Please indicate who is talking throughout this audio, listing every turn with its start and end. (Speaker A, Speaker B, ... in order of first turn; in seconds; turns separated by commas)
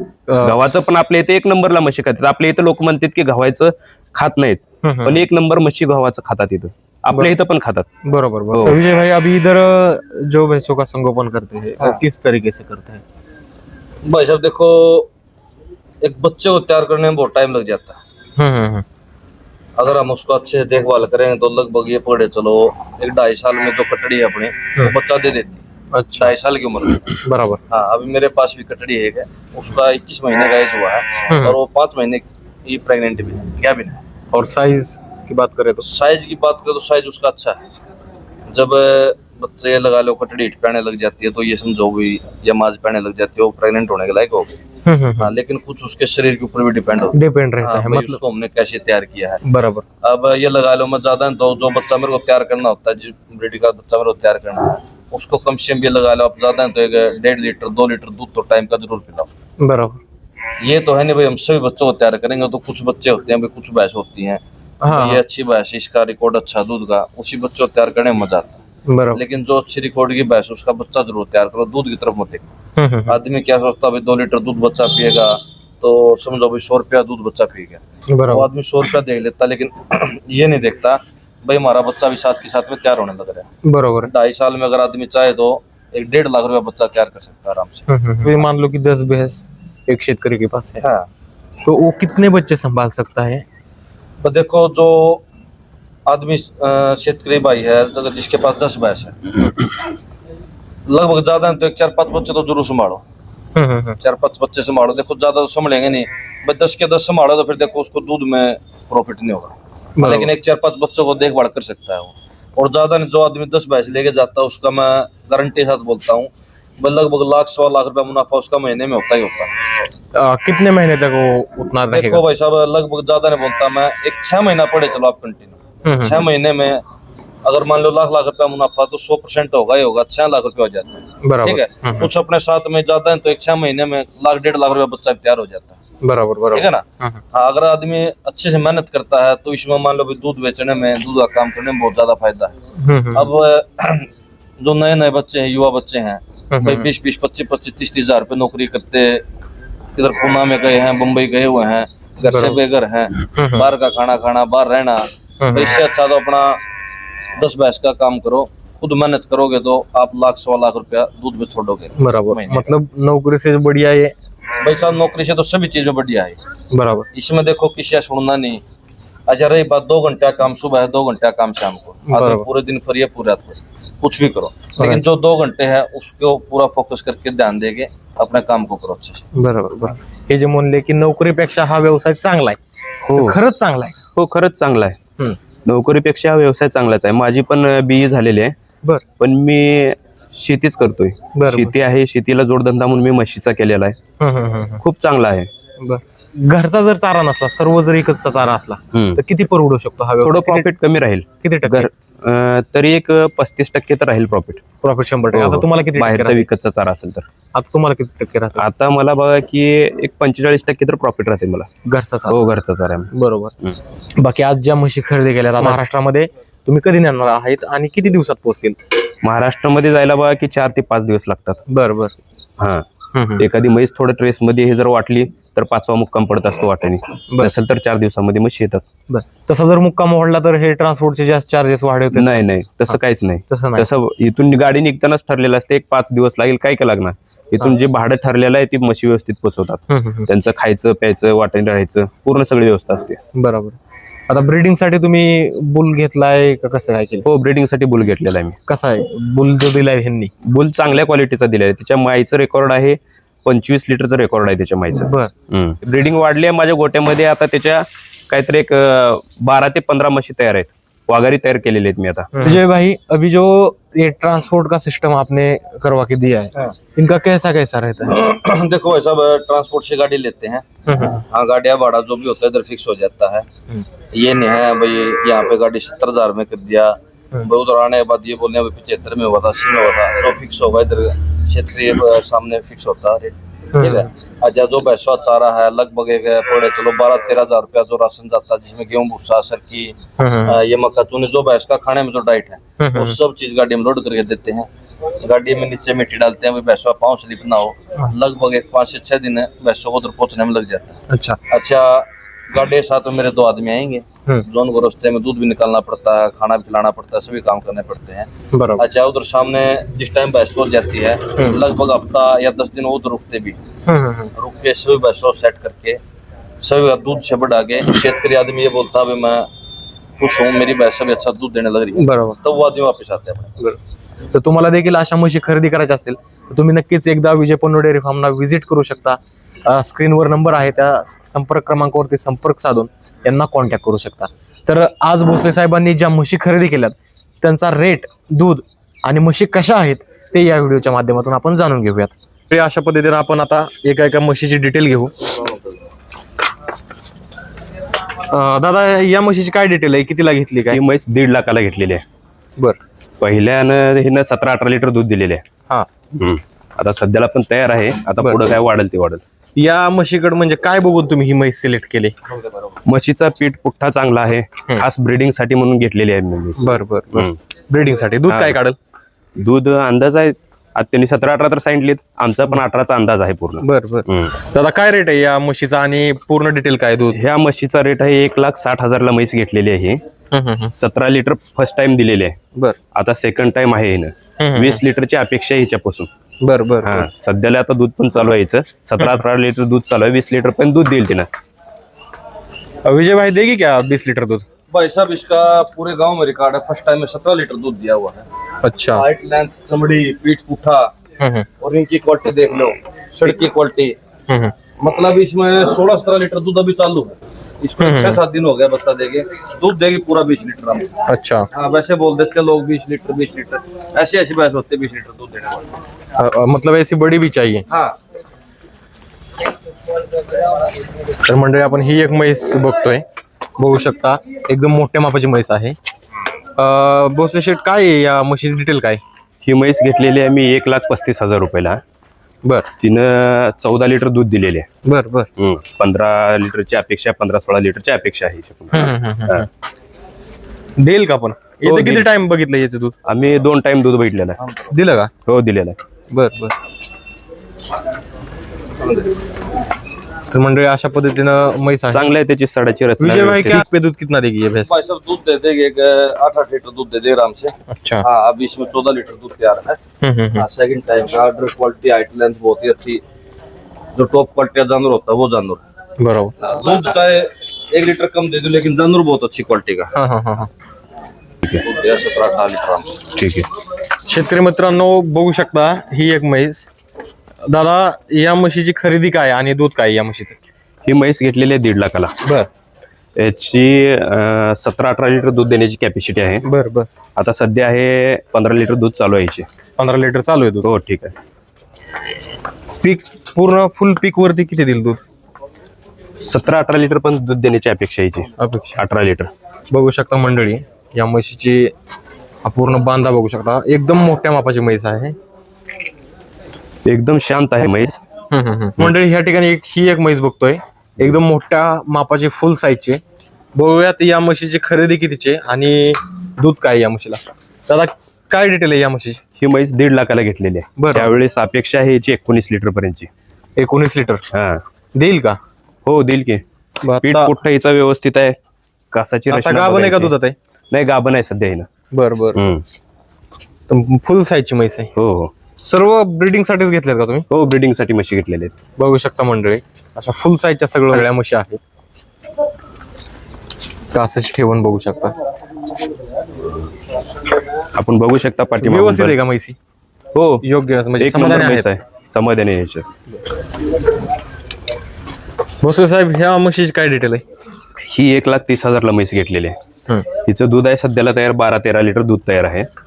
Speaker A: 0.3-0.6, Speaker B: 0.4-7.9, Speaker A: 4.8-5.2, Speaker A: 8.0-13.0, Speaker B: 8.5-8.8, Speaker C: 14.1-15.1, Speaker C: 16.0-18.0, Speaker A: 18.4-18.8, Speaker C: 19.8-25.6, Speaker A: 25.9-26.3, Speaker C: 26.1-27.2, Speaker A: 27.2-27.6, Speaker C: 27.7-34.0, Speaker A: 31.3-31.6, Speaker A: 34.3-35.8, Speaker C: 35.8-37.6, Speaker C: 38.5-44.5, Speaker A: 44.8-45.3, Speaker C: 45.2-49.4, Speaker A: 47.1-48.2, Speaker A: 49.4-49.8, Speaker C: 50.0-59.3, Speaker A: 59.6-60.0, Speaker C: 60.6-68.6, Speaker A: 64.8-65.2, Speaker A: 68.9-69.2, Speaker C: 69.1-72.5, Speaker A: 72.8-73.2, Speaker C: 73.1-83.5, Speaker A: 78.1-78.5, Speaker A: 83.6-84.1, Speaker C: 84.0-88.4, Speaker A: 87.9-90.8, Speaker C: 90.8-91.1, Speaker A: 91.6-93.4, Speaker C: 94.2-95.2, Speaker C: 96.1-99.4, Speaker C: 100.9-103.0, Speaker A: 103.5-104.0, Speaker C: 104.0-119.5, Speaker A: 110.0-110.3, Speaker A: 120.1-122.2, Speaker C: 121.9-126.8, Speaker A: 125.8-126.2, Speaker C: 127.4-135.8, Speaker A: 131.2-132.1, Speaker A: 136.0-137.2, Speaker C: 136.5-142.5, Speaker A: 142.8-143.3, Speaker C: 143.1-144.1, Speaker C: 144.6-149.2, Speaker A: 146.5-146.9, Speaker C: 150.0-156.6, Speaker A: 152.2-152.6, Speaker A: 153.3-153.7, Speaker A: 155.4-155.7, Speaker C: 157.4-162.7, Speaker A: 162.0-164.1, Speaker C: 164.6-166.4, Speaker A: 166.7-167.1, Speaker C: 167.1-168.6, Speaker C: 169.3-179.2, Speaker A: 172.1-172.4, Speaker A: 179.3-182.6, Speaker B: 183.0-183.4, Speaker A: 183.1-183.9, Speaker B: 184.1-185.0, Speaker B: 185.7-188.5, Speaker B: 189.2-193.9, Speaker A: 191.3-191.7, Speaker A: 194.2-194.8, Speaker B: 194.8-195.5, Speaker A: 195.8-200.7, Speaker B: 198.9-199.2, Speaker B: 200.2-204.6, Speaker A: 201.4-201.9, Speaker A: 204.8-206.5, Speaker B: 205.3-207.2, Speaker A: 207.5-208.6, Speaker B: 208.6-211.7, Speaker A: 211.9-212.4, Speaker B: 212.3-213.1, Speaker A: 213.1-213.5, Speaker A: 214.2-218.8, Speaker B: 219.2-221.6, Speaker A: 221.7-222.1, Speaker B: 222.6-222.9, Speaker A: 223.1-223.4, Speaker B: 223.4-228.8, Speaker A: 229.1-233.0, Speaker B: 232.1-243.2, Speaker A: 233.5-233.9, Speaker A: 239.9-240.3, Speaker A: 243.3-243.8, Speaker A: 244.3-247.2, Speaker B: 247.2-248.6, Speaker A: 248.7-250.3, Speaker B: 250.5-262.6, Speaker A: 254.9-255.3, Speaker A: 262.3-268.2, Speaker C: 268.1-270.6, Speaker A: 270.9-271.2, Speaker C: 271.3-273.4, Speaker C: 274.1-294.7, Speaker A: 283.7-284.1, Speaker A: 290.2-290.6, Speaker A: 292.8-293.1, Speaker C: 295.2-313.6, Speaker A: 301.1-301.4, Speaker A: 308.5-308.8, Speaker A: 313.9-314.3, Speaker C: 314.4-316.0, Speaker C: 316.6-319.5, Speaker C: 320.2-323.5, Speaker A: 322.0-322.4, Speaker A: 324.3-345.1, Speaker C: 345.4-345.7, Speaker A: 348.3-350.8, Speaker B: 350.7-352.0, Speaker B: 353.2-355.4, Speaker B: 356.1-359.2, Speaker A: 359.6-362.1, Speaker C: 362.3-362.8, Speaker B: 362.9-367.4, Speaker A: 366.6-368.8, Speaker B: 368.3-368.6, Speaker B: 369.4-374.4, Speaker A: 373.6-377.2, Speaker B: 377.1-380.0, Speaker A: 380.3-380.7, Speaker B: 380.7-382.4, Speaker B: 382.9-386.1, Speaker A: 384.4-384.8, Speaker A: 386.4-387.1, Speaker B: 386.8-391.3, Speaker A: 392.8-394.4, Speaker C: 394.7-398.2, Speaker A: 398.6-399.1, Speaker C: 398.9-400.9, Speaker A: 401.2-401.5, Speaker C: 401.6-403.9, Speaker A: 404.3-404.5, Speaker C: 404.8-410.9, Speaker A: 407.8-408.2, Speaker A: 411.1-411.5, Speaker C: 411.5-415.7, Speaker A: 416.2-417.6, Speaker C: 417.7-417.9, Speaker A: 421.2-423.0, Speaker A: 423.6-425.8, Speaker A: 426.6-429.0, Speaker B: 429.4-431.8, Speaker A: 432.4-432.7, Speaker B: 432.8-434.7, Speaker A: 434.8-435.3, Speaker B: 435.4-439.4, Speaker A: 438.7-439.5, Speaker A: 440.8-442.9, Speaker B: 441.6-442.1, Speaker B: 443.1-444.4, Speaker C: 444.4-444.7, Speaker A: 444.7-445.1, Speaker B: 445.2-445.8, Speaker A: 446.1-446.5, Speaker C: 448.8-449.1, Speaker A: 450.3-452.0, Speaker B: 451.9-453.6, Speaker A: 453.0-454.7, Speaker C: 454.6-459.8, Speaker A: 457.7-458.0, Speaker A: 460.0-460.4, Speaker C: 460.4-463.0, Speaker C: 463.9-465.6, Speaker A: 466.0-466.3, Speaker C: 466.4-469.9, Speaker A: 469.9-470.5, Speaker C: 471.6-473.0, Speaker B: 473.1-473.4, Speaker A: 474.1-476.7, Speaker A: 477.4-480.4, Speaker B: 480.8-482.1, Speaker B: 483.1-486.4, Speaker A: 486.4-486.9, Speaker B: 487.2-489.5, Speaker A: 489.8-490.6, Speaker B: 490.6-491.1, Speaker A: 492.8-495.0, Speaker B: 496.2-499.3, Speaker A: 498.4-498.8, Speaker A: 499.7-501.7, Speaker A: 502.4-505.1, Speaker B: 506.9-508.0, Speaker A: 508.3-513.0, Speaker A: 513.5-519.2, Speaker B: 519.4-523.1, Speaker A: 520.8-521.1, Speaker A: 523.6-524.2, Speaker B: 524.3-524.6, Speaker A: 525.0-525.4, Speaker B: 525.9-526.4, Speaker A: 526.8-527.3, Speaker B: 527.0-528.4, Speaker B: 528.9-530.1, Speaker A: 529.3-530.3, Speaker B: 530.7-531.7, Speaker A: 531.9-532.4, Speaker B: 532.3-532.6, Speaker A: 533.7-534.9, Speaker B: 534.9-535.3, Speaker A: 535.6-537.3, Speaker B: 537.3-538.5, Speaker A: 538.8-541.6, Speaker A: 543.9-545.1, Speaker B: 547.7-549.2, Speaker A: 548.6-549.5, Speaker B: 550.1-550.4, Speaker A: 550.4-551.7, Speaker B: 551.0-552.9, Speaker A: 555.6-557.2, Speaker B: 557.8-559.6, Speaker B: 560.2-562.7